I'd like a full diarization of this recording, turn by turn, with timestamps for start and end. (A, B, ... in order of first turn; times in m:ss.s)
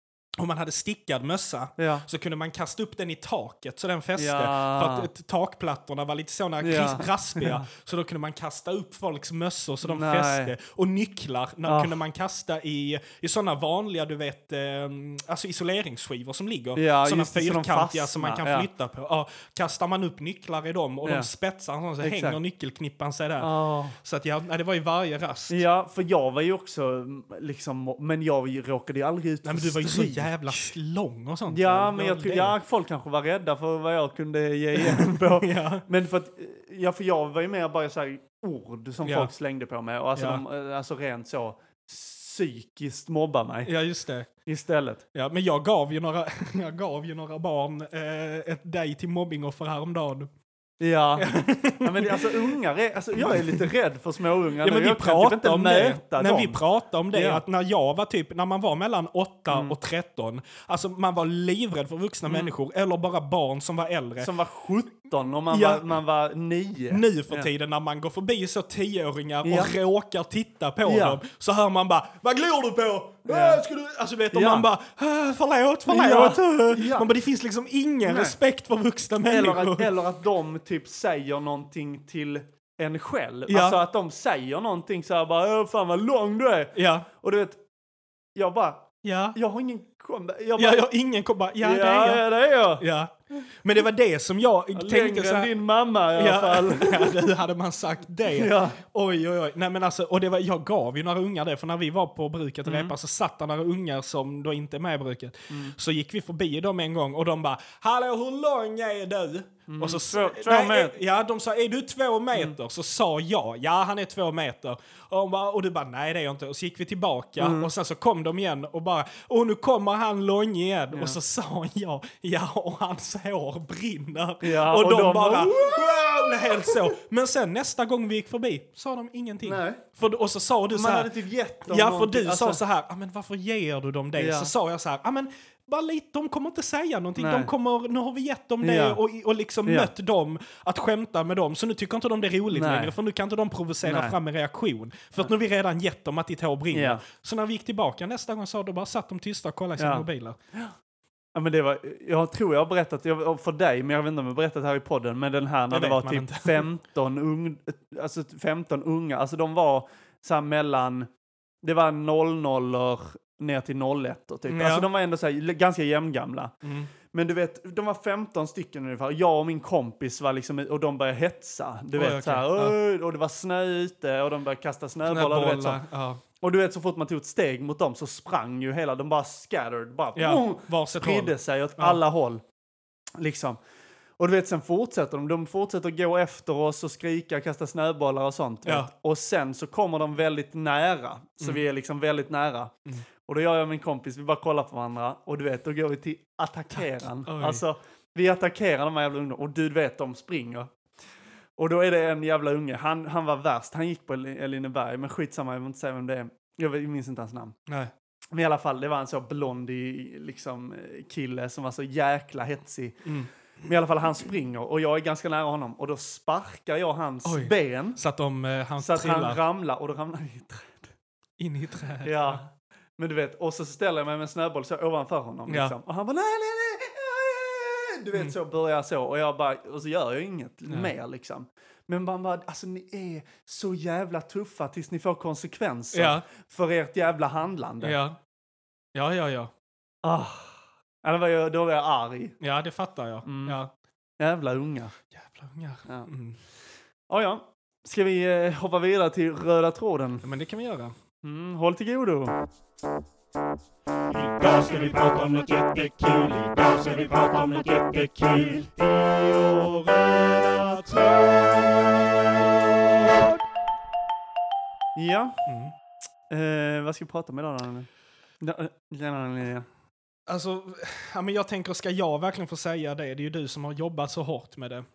0:00.4-0:25.6 A
0:01.8-0:02.0 B
0:04.2-0:05.1 B
0:06.6-0:07.6 B
0:09.8-0:10.5 B
0:11.6-0:12.0 B
0:16.8-0:18.7 B
0:21.0-0:21.3 B
0:22.0-0:22.4 B
0:23.4-0:24.0 B
0:25.5-0:30.7 B
0:29.4-0:32.6 A
0:31.5-0:43.7 B
0:34.7-0:35.8 A
0:39.0-0:39.3 A
0:40.2-0:40.4 A
0:43.6-0:44.3 A
0:44.4-0:45.0 B
0:45.1-0:50.3 A
0:50.8-0:56.6 B
0:51.2-0:52.5 A
0:53.1-0:53.7 A
0:54.6-1:04.3 A
0:57.1-0:57.4 B
0:59.5-0:59.7 B
1:02.3-1:02.5 B
1:04.2-1:07.5 B
1:05.5-1:05.8 A
1:06.9-1:19.9 A
1:09.4-1:09.7 B
1:10.8-1:11.2 B
1:13.3-1:13.6 B
1:14.3-1:14.7 B
1:15.9-1:17.1 B
1:18.0-1:18.4 B
1:19.2-1:27.6 B
1:23.5-1:23.8 A
1:26.7-1:27.1 A
1:28.3-1:30.9 B
1:29.0-1:29.4 A
1:30.6-1:32.2 A
1:31.6-1:32.8 B
1:32.8-1:35.5 A
1:34.7-1:37.2 B
1:36.2-2:30.4 A
1:38.3-1:38.8 B
1:42.6-1:42.9 B
1:49.7-1:51.0 B
1:57.4-1:57.7 B
2:00.9-2:01.2 B
2:04.4-2:06.9 B
2:09.4-2:09.8 B
2:10.7-2:12.6 B
2:14.2-2:14.5 B
2:17.2-2:17.5 B
2:18.6-2:19.0 B
2:19.6-2:19.9 B
2:22.5-2:22.9 B
2:23.8-2:24.1 B
2:26.7-2:27.0 B
2:29.8-2:30.7 B
2:31.3-2:41.1 B
2:35.7-2:36.7 A
2:41.6-2:46.5 B
2:44.5-2:44.9 A
2:46.6-2:46.9 A
2:47.0-2:55.8 B
2:51.9-2:52.8 A
2:55.1-2:56.2 A
2:56.4-3:02.4 B
3:00.1-3:02.0 A
3:03.2-3:03.6 B
3:04.2-3:20.7 B
3:17.2-3:17.6 A
3:21.6-3:27.6 B
3:27.7-3:27.9 A
3:28.3-3:33.0 B
3:33.0-3:33.3 A
3:33.6-3:38.0 B
3:37.2-3:39.4 A
3:38.8-3:40.9 B
3:41.4-3:42.5 A
3:42.0-3:42.4 B
3:43.0-3:58.0 B
3:45.5-3:45.7 A
3:55.9-3:56.2 A
3:57.8-3:58.2 A
3:58.9-3:59.5 A
4:00.0-4:02.4 B
4:02.4-4:03.7 A
4:03.2-4:03.6 B
4:04.2-4:04.9 B
4:05.1-4:06.4 A
4:07.1-4:10.2 B
4:10.2-4:10.9 A
4:11.2-4:12.3 B
4:14.1-4:22.0 C
4:22.6-4:23.3 C
4:24.9-4:25.4 B
4:25.4-4:25.7 A
4:26.3-4:27.9 B
4:28.4-4:29.7 B
4:30.3-4:34.8 A